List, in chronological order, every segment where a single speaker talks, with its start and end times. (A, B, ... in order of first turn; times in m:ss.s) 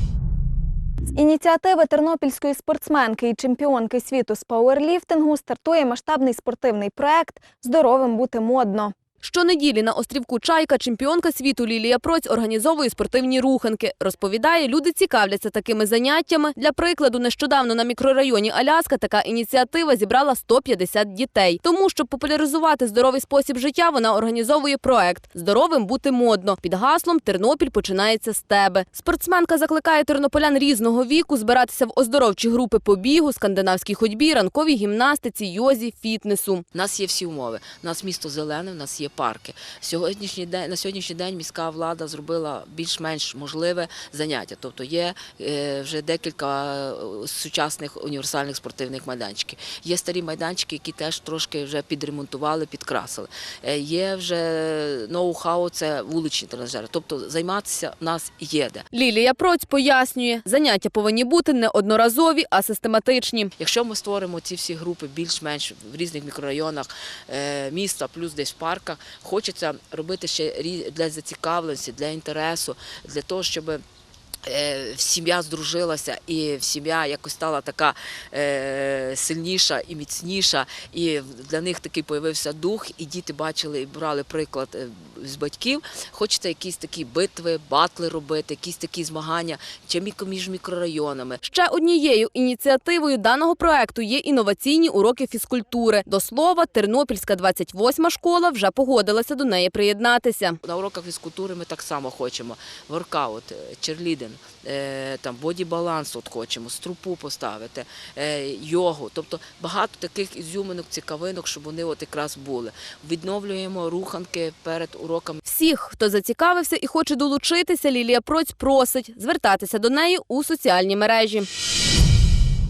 0:01.1-0:08.9 A
0:09.2-0:36.6 B
0:36.8-0:58.8 C
0:58.9-1:03.5 B
1:03.6-1:13.8 C
1:14.5-1:31.3 C
1:31.4-1:40.6 B
1:40.6-1:55.3 C
1:55.4-2:01.5 B